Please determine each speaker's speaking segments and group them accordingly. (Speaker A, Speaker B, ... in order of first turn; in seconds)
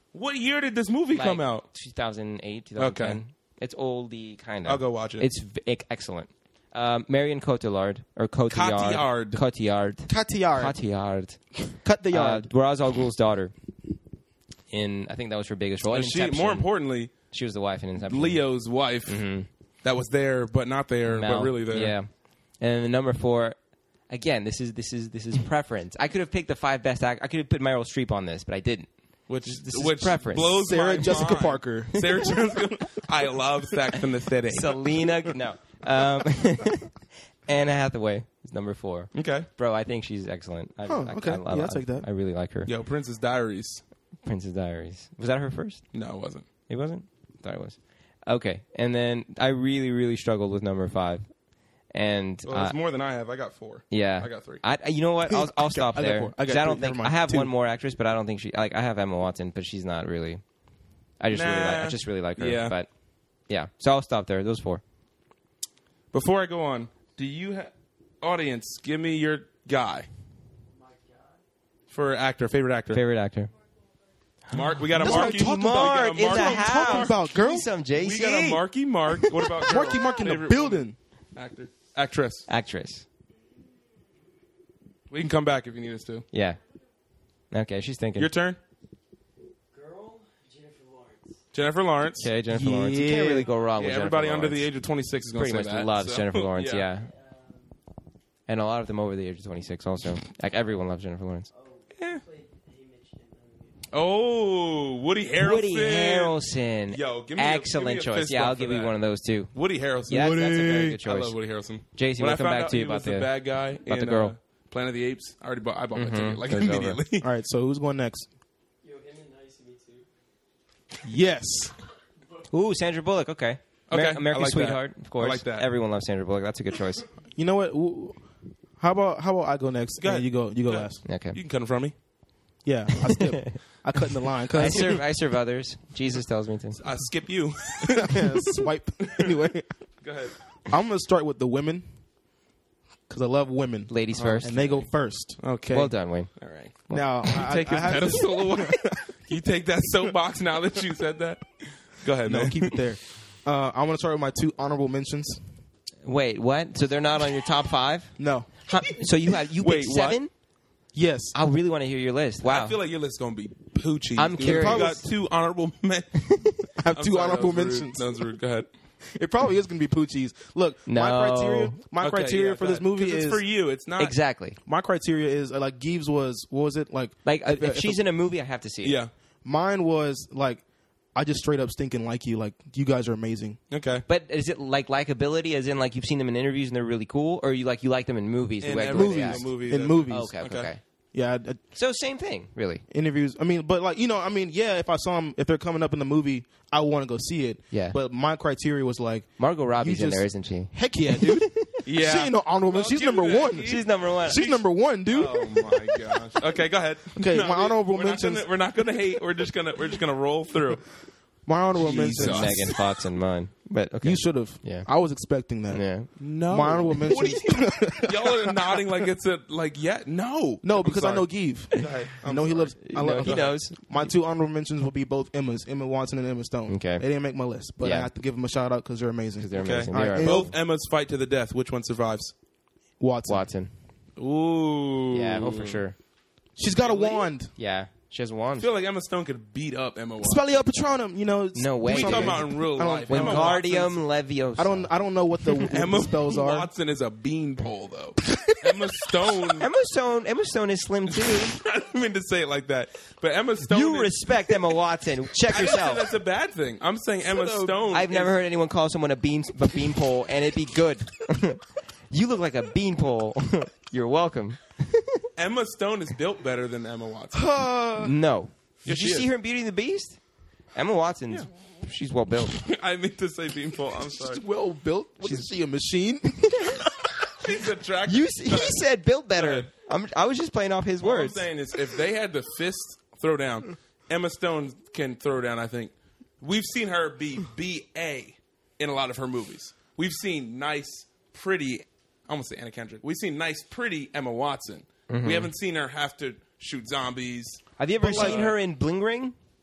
Speaker A: 0.1-1.7, 2.8-3.2, 4.7-5.3, 8.5-9.4, 15.8-17.1, 18.0-19.2, 19.8-21.9, 29.3-34.9, 39.1-39.5, 42.7-43.8, 45.9-46.5, 52.5-54.6, 61.3-62.8, 66.1-70.1, 71.9-73.0, 74.5-77.2, 77.9-82.5, 85.1-86.3, 88.2-88.6, 91.5-92.3, 93.8-96.9, 102.0-102.2, 103.9-106.3, 106.9-108.9, 109.5-117.3, 123.9-125.7, 130.0-131.9, 136.8-139.3, 140.0-140.4, 144.2-144.4, 145.4-145.7, 146.4-152.8, 159.6-160.2, 162.4-168.7, 172.0-174.2, 178.8-179.1, 183.7-184.1, 188.6-190.7, 201.8-210.9, 211.8-212.7, 216.2-223.6, 229.6-232.3, 234.2-235.8, 236.8-237.3, 238.6-240.4, 241.9-244.0, 245.7-249.7, 251.1-254.6, 255.4-258.4, 265.4-267.6, 268.9-269.3, 272.5-274.4, 277.4-279.7, 281.0-298.6
Speaker B: 1.1-11.4, 12.1-13.5, 14.7-16.7, 17.3-18.4, 19.1-19.5, 21.1-22.1, 22.6-23.6, 24.1-28.9, 29.4-30.7, 34.5-36.9, 37.5-42.7, 44.2-45.8, 46.7-51.2, 51.9-52.8, 53.9-60.4, 61.2-62.9, 63.5-64.8, 72.9-73.5, 74.9-78.6, 82.5-83.0, 86.3-86.6, 87.5-88.3, 92.2-94.7, 95.3-97.1, 98.5-101.5, 105.4-109.5, 110.1-111.4, 112.0-113.3, 113.9-114.3, 116.0-117.0, 122.5-127.1, 131.1-131.4, 133.2-133.6, 134.5-136.8, 143.9-144.9, 145.7-146.3, 156.0-160.3, 161.3-162.8, 164.2-165.0, 166.2-166.6, 170.9-171.8, 174.0-174.6, 177.2-179.0, 184.1-189.5, 190.1-190.8, 191.8-192.8, 197.7-198.0, 199.4-201.7, 203.6-204.4, 212.1-214.9, 215.7-216.1, 222.8-223.8, 226.7-227.0, 227.8-228.1, 229.4-230.5, 233.3-233.7, 235.1-236.0, 237.6-238.7, 241.5-242.5, 243.1-245.7, 249.6-251.6, 253.7-256.1, 257.9-265.3, 268.0-270.2, 270.8-272.6, 278.1-281.5, 295.1-295.5, 297.8-299.4
Speaker C: 10.1-10.8, 11.8-12.5, 30.7-32.7, 40.9-42.1, 55.3-57.5, 75.0-77.7, 79.6-81.0, 92.5-93.5, 117.2-118.3, 121.0-121.8, 127.3-128.2, 128.8-131.0, 132.7-135.0, 137.8-139.7, 140.7-141.8, 143.1-145.9, 146.9-149.1, 152.2-155.4, 158.2-158.5, 160.9-161.3, 164.4-165.0, 166.8-168.1, 169.1-173.4, 174.7-178.0, 179.4-180.6, 181.2-183.6, 188.9-190.3, 191.1-191.6, 192.9-206.3, 207.2-208.5, 211.5-212.8, 214.0-215.8, 216.5-218.6, 220.6-230.5, 233.0-233.5, 236.6-237.5, 240.2-243.6, 244.6-246.7, 257.3-257.8, 267.3-268.1, 274.2-276.9, 298.0-298.5
Speaker D: 70.7-71.4, 89.7-91.4, 97.0-97.8, 101.5-103.8, 118.8-120.1